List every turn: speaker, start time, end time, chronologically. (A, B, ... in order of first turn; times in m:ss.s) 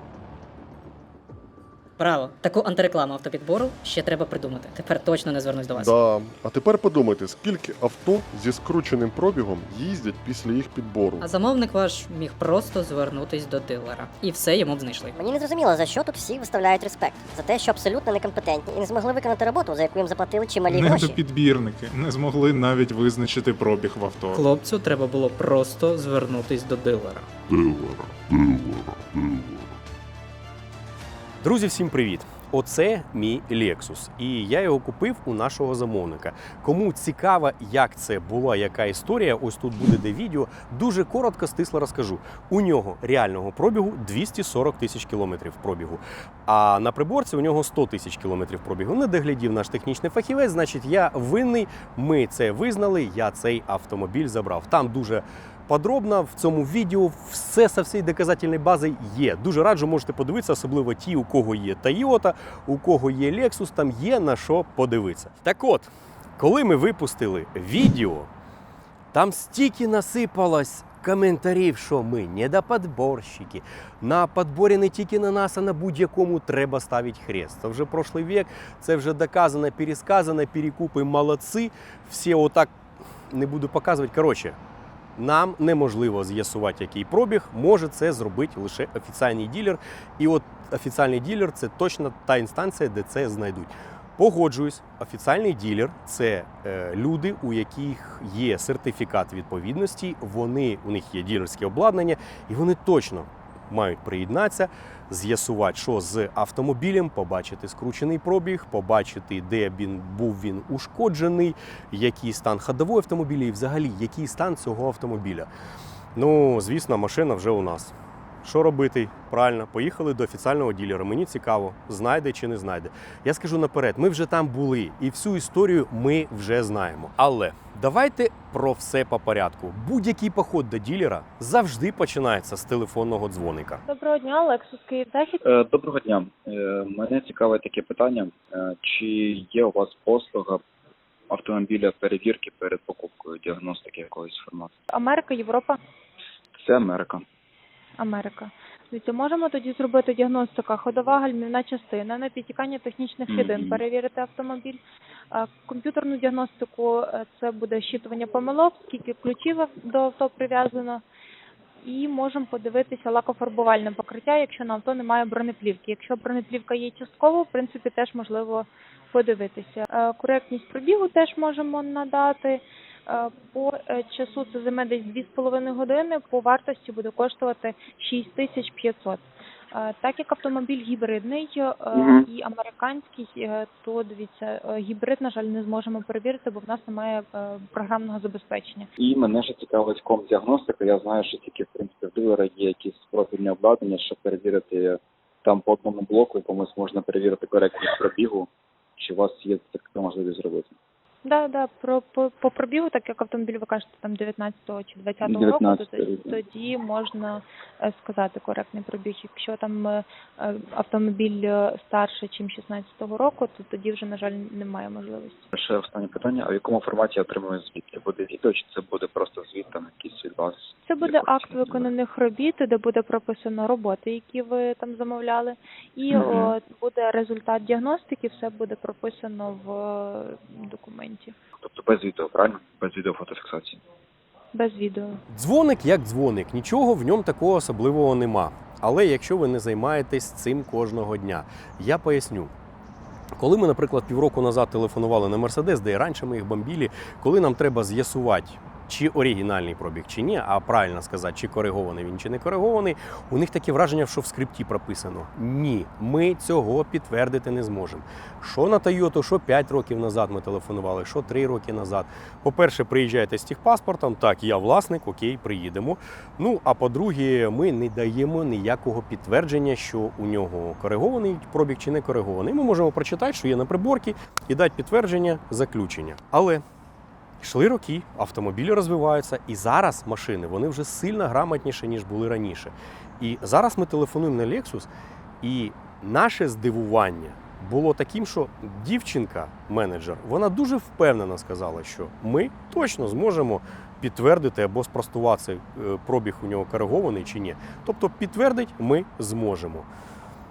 0:02.0-0:06.0 A
0:05.8-0:11.2 B
0:11.2-0:15.1 A
0:15.1-0:21.2 C
0:20.7-0:24.4 D
0:24.3-0:27.3 A
0:27.5-0:29.6 B
0:31.4-1:08.3 E
1:09.1-1:22.7 E
1:23.3-1:24.6 E
1:25.2-1:55.5 E
1:56.2-2:13.8 E
2:13.9-2:15.4 F
2:15.4-2:20.6 G
2:21.3-2:24.7 G
2:24.9-2:25.8 F
2:26.6-2:27.2 G
2:28.0-2:34.8 F
2:33.3-2:33.8 G
2:35.3-2:41.0 F
2:41.8-3:08.9 F
3:01.9-3:02.3 G
3:09.0-3:20.7 G
3:21.2-3:35.5 F
3:25.2-3:26.4 G
3:35.5-3:41.9 G
3:40.8-3:51.4 F
3:46.1-3:46.6 G
3:51.6-3:53.8 G
3:54.5-3:55.2 F
3:55.3-4:02.5 E
4:03.4-4:36.6 E
4:37.4-4:44.9 E
4:45.4-4:59.9 E